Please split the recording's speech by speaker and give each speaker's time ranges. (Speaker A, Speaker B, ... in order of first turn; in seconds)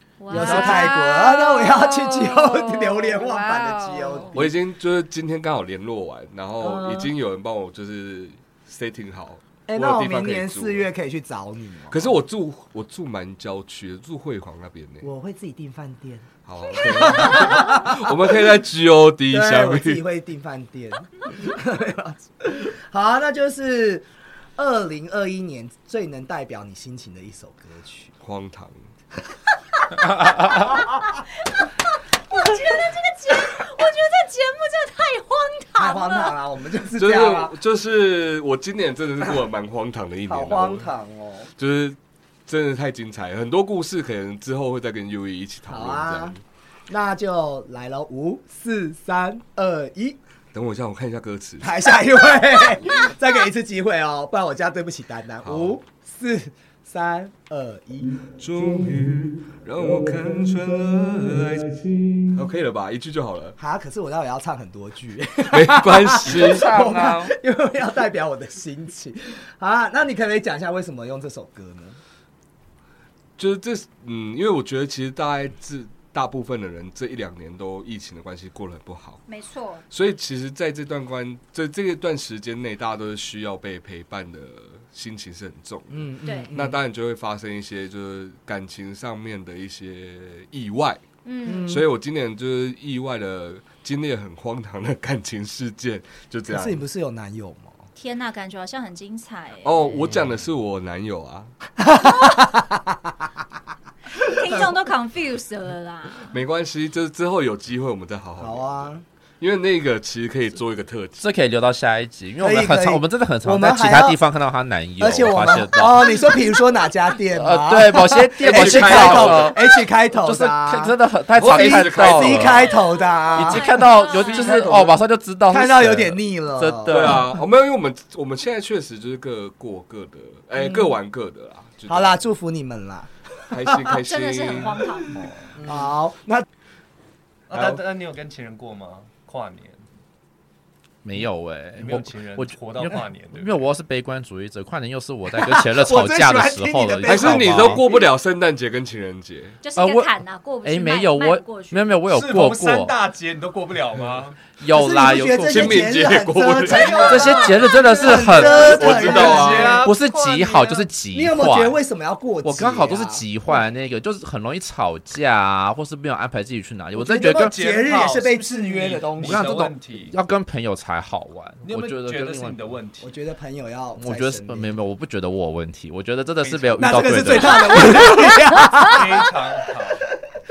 Speaker A: 0.2-4.4, 32.3-36.3, 79.3-79.8, 91.2-91.8, 98.0-99.9, 104.1-106.3, 122.9-124.6, 134.0-135.2, 149.6-152.0, 177.7-178.0
Speaker B: 0.3-4.5, 6.6-7.1, 9.7-12.1, 15.0-18.2, 19.3-28.1, 35.8-37.5, 40.3-41.5, 45.7-46.3, 46.9-50.2, 51.6-58.2, 63.6-72.0, 85.9-86.8, 91.4-91.9, 96.5-97.8, 101.8-103.1, 104.5-104.7, 108.4-109.0, 112.4-114.2, 115.0-124.9, 125.5-127.2, 130.6-130.9, 131.9-133.9, 135.6-136.4, 145.4-148.0, 154.7-159.8, 161.1-163.2, 166.9-169.5, 173.0-174.7, 176.8-179.3
Speaker C: 0.3-0.8, 66.2-67.3, 111.2-116.3, 117.3-119.6, 120.2-122.7, 123.3-127.3, 141.0-147.8, 149.8-152.9, 154.5-156.0, 157.0-161.8, 162.4-167.6, 169.2-172.6, 174.0-178.1
Speaker D: 4.3-10.9, 11.9-15.1, 16.4-20.0, 28.2-28.7, 37.0-40.9, 41.6-46.4, 50.5-51.8, 55.4-55.8, 58.2-63.6, 65.5-66.7, 73.4-79.2, 79.9-91.0, 91.7-96.8, 99.6-101.5, 106.3-111.2, 118.4-119.5, 121.3-122.7, 124.5-124.8, 126.9-132.2, 133.5-135.1, 137.5-137.8, 147.0-149.6, 155.5-157.2, 158.5-159.8
Speaker E: 137.5-139.8, 141.7-143.7, 152.1-154.5, 156.7-160.9, 167.3-170.1, 171.6-173.1, 176.4-177.3, 178.8-180.1